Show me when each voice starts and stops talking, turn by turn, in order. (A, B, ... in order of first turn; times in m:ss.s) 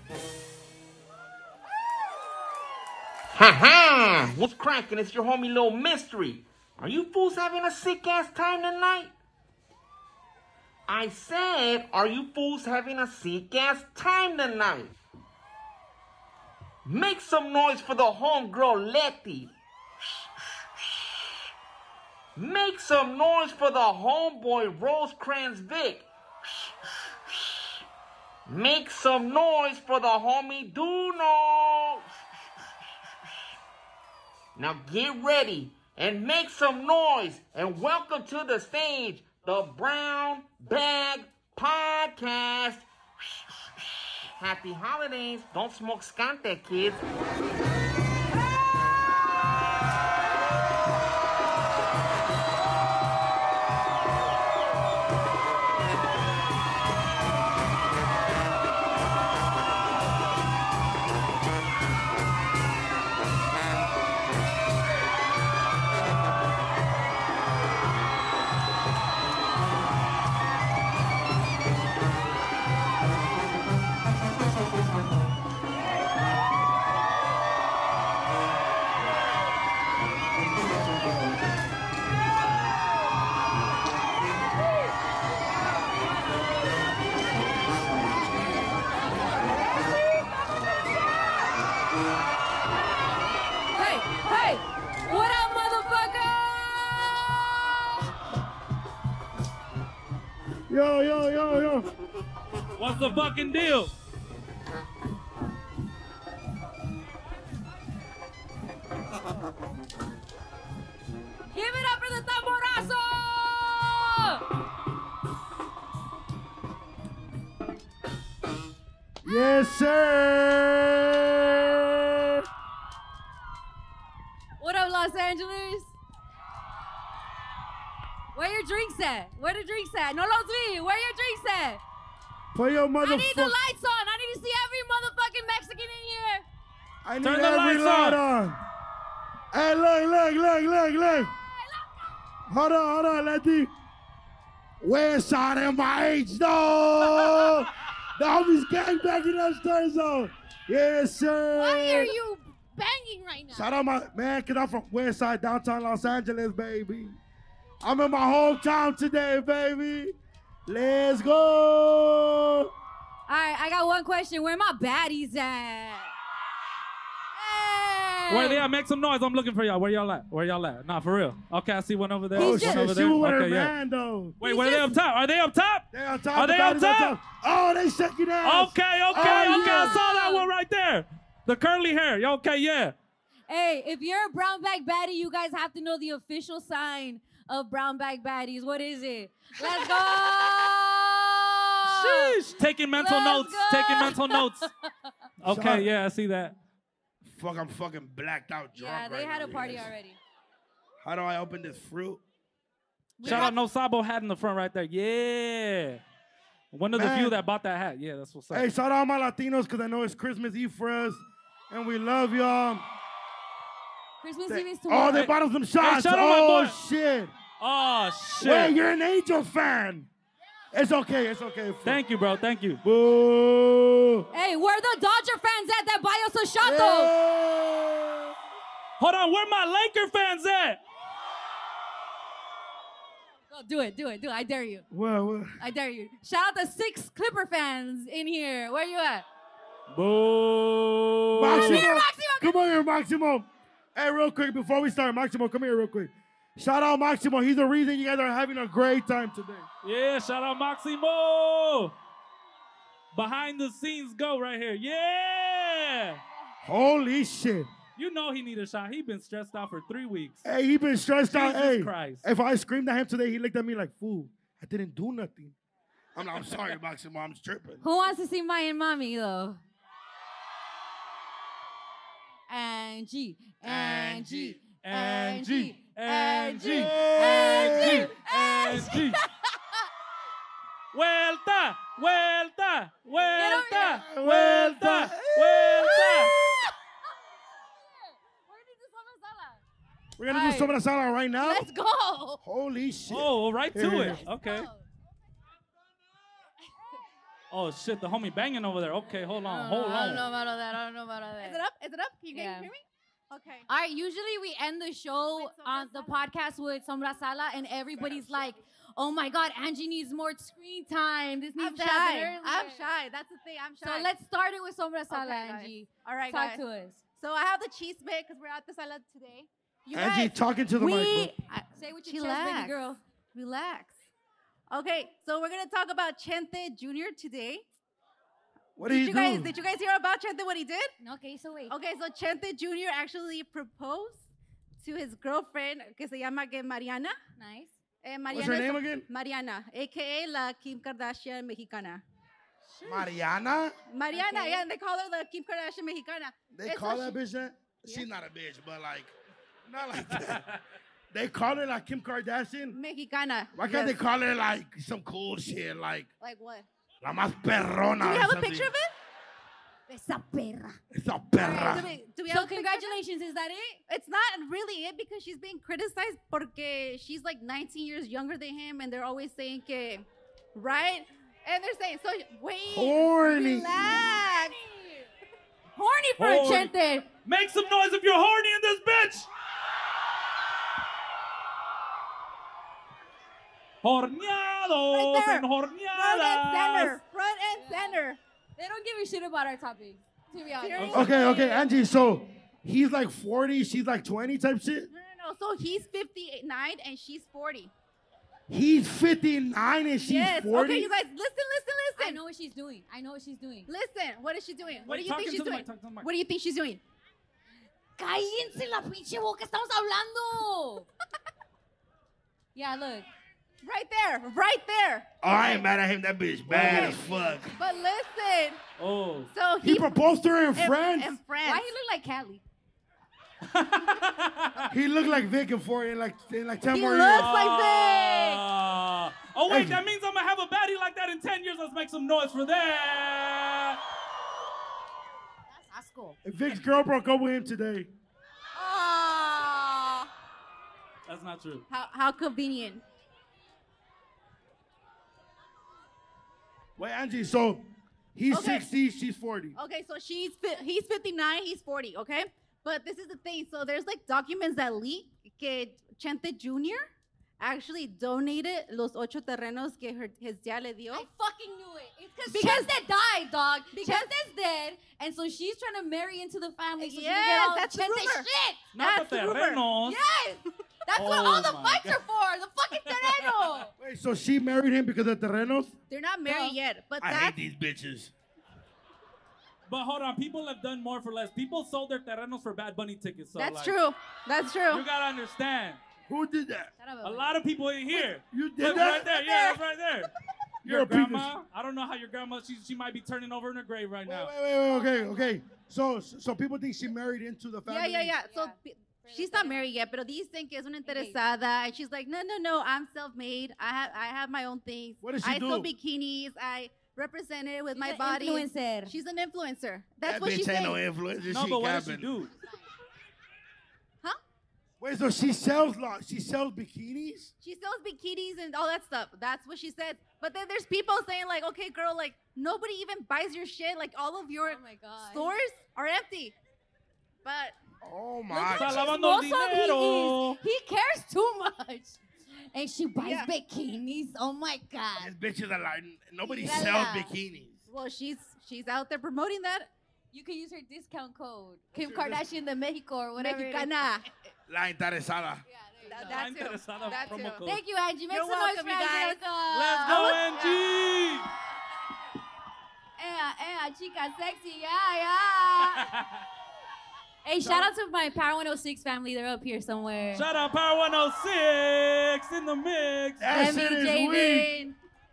0:03.3-0:09.1 A
0:10.9-0:14.9 A
0:16.8-0:21.3 A
0:22.4-0:26.7 A
0:27.3-0:27.8 A
0:28.5-0:33.5 A
0:34.6-0:47.0 A
1:33.7-1:36.8 B
1:33.8-1:34.0 C
1:40.7-1:41.9 D
1:42.8-1:43.9 E
1:51.5-1:54.4 B
1:59.2-2:02.4 D
2:04.6-2:05.9 B
2:08.3-2:11.8 B
2:12.5-2:13.6 D
2:13.0-2:16.4 B
2:17.0-2:18.6 D
2:17.2-2:18.2 E
2:19.5-2:21.3 D
2:21.4-2:21.9 B
2:22.5-2:23.7 D
2:24.8-2:32.1 D
2:31.6-2:33.7 B
2:33.5-2:37.2 D
2:37.8-2:40.1 D
2:40.7-2:42.7 D
2:43.3-2:46.1 B
2:47.3-2:48.6 B
2:48.3-2:53.7 E
2:52.3-2:54.4 D
2:52.4-2:52.9 B
2:54.4-2:57.2 E
2:54.4-2:55.0 B
2:55.9-3:00.0 D
2:58.4-3:02.9 E
2:59.1-3:00.4 B
3:03.5-3:12.4 B
3:11.8-3:14.7 E
3:12.9-3:14.7 B
3:15.4-3:16.5 E
3:15.4-3:15.9 D
3:17.2-3:19.9 D
3:18.7-3:20.2 B
3:21.0-3:22.2 D
3:23.2-3:23.5 B
3:23.2-3:26.0 E
3:26.7-3:28.6 E
3:26.9-3:27.4 D
3:28.5-3:32.8 D
3:34.2-3:35.3 B
3:34.5-3:37.3 D
3:35.1-3:36.8 E
3:37.6-3:38.7 E
3:38.4-3:40.1 D
3:40.7-3:42.0 D
3:41.8-3:42.8 E
3:42.8-3:44.2 D
3:44.3-3:47.1 B
3:46.6-3:48.3 D
3:49.0-3:50.8 E
3:53.5-3:54.8 B
3:54.9-3:55.5 D
3:55.6-3:59.2 B
3:59.9-4:01.8 E
4:01.4-4:09.6 D
4:01.5-4:02.6 B
4:09.8-4:11.9 E
4:13.1-4:16.2 E
4:16.6-4:17.7 D
4:18.0-4:20.4 E
4:20.4-4:25.5 D
4:21.3-4:22.2 E
4:26.1-4:27.8 D
4:27.8-4:29.6 B
4:32.5-4:39.2 B
4:33.6-4:34.6 D
4:34.8-4:39.2 E
4:36.6-4:38.1 D
4:40.9-4:46.4 E
4:43.2-4:44.0 B
4:43.7-4:46.3 D
4:45.8-4:46.4 B
4:47.7-4:49.6 B
4:50.2-4:51.6 D
4:50.3-4:50.7 B
4:51.4-4:52.4 B
4:52.4-4:54.2 D
4:53.1-4:54.7 E
4:54.0-4:54.8 B
4:57.5-5:00.2 E
4:59.5-5:01.6 B
5:01.4-5:03.7 C
5:02.3-5:02.7 B
5:03.7-5:12.8 B
5:05.2-5:06.1 C
5:08.0-5:08.3 D
5:11.6-5:14.1 C
5:13.8-5:17.0 B
5:15.1-5:16.6 C
5:17.2-5:20.3 C
5:19.9-5:21.3 D
5:20.8-5:23.0 B
5:21.5-5:22.7 C
5:23.3-5:24.0 C
5:24.7-5:27.6 C
5:28.8-5:29.5 D
5:28.8-5:30.9 C
5:31.0-5:31.7 B
5:31.7-5:34.2 C
5:34.8-5:37.2 C
5:37.4-5:37.7 B
5:38.0-5:42.0 C
5:38.3-5:39.0 D
5:42.8-5:43.7 D
5:43.9-5:47.2 C
5:44.1-5:44.6 B
5:46.5-5:49.1 D
5:49.7-5:50.4 D
5:50.1-5:50.6 E
5:51.1-5:52.8 D
5:52.7-5:53.9 C
5:53.5-5:56.1 D
5:56.2-5:56.7 C
5:57.0-5:58.7 D
5:58.0-5:58.9 C
5:59.9-6:00.8 B
6:00.9-6:01.9 D
6:01.4-6:03.0 C
6:02.2-6:03.8 B
6:03.9-6:14.6 C
6:12.7-6:14.1 D
6:14.6-6:15.0 B
6:15.8-6:17.1 B
6:16.2-6:19.3 E
6:23.8-6:27.0 E
6:24.9-6:28.2 C
6:27.6-6:28.0 B
6:28.6-6:31.6 B
6:30.6-6:31.6 C
6:30.8-6:31.1 E
6:30.9-6:34.9 D
6:34.9-6:37.7 C
6:38.5-6:40.9 D
6:40.0-6:42.2 C
6:42.0-6:43.7 B
6:43.7-6:46.8 C
6:44.8-6:46.1 E
6:48.0-6:50.9 B
6:52.5-6:53.0 B
6:53.6-6:55.6 C
6:55.2-6:57.5 D
6:56.5-6:56.9 E
6:56.6-6:57.0 C
6:57.5-6:58.6 C
6:58.8-6:59.3 E
6:59.3-6:59.9 C
6:59.6-7:01.2 D
7:00.6-7:01.7 C
7:01.4-7:02.4 B
7:03.5-7:04.7 E
7:04.7-7:07.3 D
7:06.7-7:08.4 C
7:07.1-7:13.8 E
7:09.5-7:09.8 D
7:15.5-7:16.1 B
7:16.2-7:17.9 D
7:18.6-7:20.0 B
7:18.6-7:19.1 C
7:21.1-7:21.6 E
7:21.7-7:22.8 C
7:26.8-7:27.6 D
7:28.1-7:29.6 D
7:28.3-7:28.6 C
7:29.6-7:36.9 C
7:37.4-7:41.1 C
7:40.9-7:48.7 B
7:42.3-7:42.7 C
7:43.7-7:44.1 C
7:46.8-7:48.3 C
7:48.7-7:50.0 E
7:48.8-7:49.6 C
7:49.8-7:53.7 B
7:50.9-7:52.0 E
7:52.8-7:53.6 E
7:53.8-7:55.7 D
7:55.9-7:57.3 C
7:56.2-7:56.6 B
7:57.0-7:58.1 D
7:59.7-8:03.8 E
8:03.4-8:04.8 C
8:04.7-8:05.8 E
8:06.1-8:06.7 D
8:06.8-8:07.3 B
8:07.0-8:10.1 E
8:08.3-8:09.1 D
8:10.6-8:11.3 D
8:10.6-8:14.3 E
8:14.1-8:18.1 D
8:14.7-8:15.4 B
8:17.7-8:30.8 C
8:18.2-8:19.7 B
8:20.8-8:21.2 B
8:25.0-8:25.7 D
8:27.7-8:28.9 B
8:30.0-8:32.1 D
8:31.2-8:32.3 E
8:34.8-8:37.3 D
8:37.4-8:46.4 C
8:44.4-8:45.3 B
8:47.2-8:47.6 C
8:47.8-8:48.9 D
8:48.3-8:52.0 B
8:48.5-8:50.4 E
8:52.5-8:55.1 B
8:53.0-8:53.3 C
8:55.0-8:57.6 D
8:56.2-8:57.1 B
8:57.7-8:59.7 C
9:00.1-9:03.9 B
9:01.7-9:02.2 D
9:03.2-9:04.0 C
9:04.5-9:05.4 D
9:05.5-9:10.5 B
9:05.8-9:07.4 C
9:06.0-9:07.6 E
9:08.1-9:09.2 C
9:09.5-9:11.3 E
9:09.8-9:11.0 C
9:13.0-9:15.8 B
9:15.8-9:16.2 E
9:17.2-9:20.2 B
9:17.4-9:17.7 D
9:20.1-9:23.2 E
9:23.2-9:24.5 D
9:23.3-9:24.8 B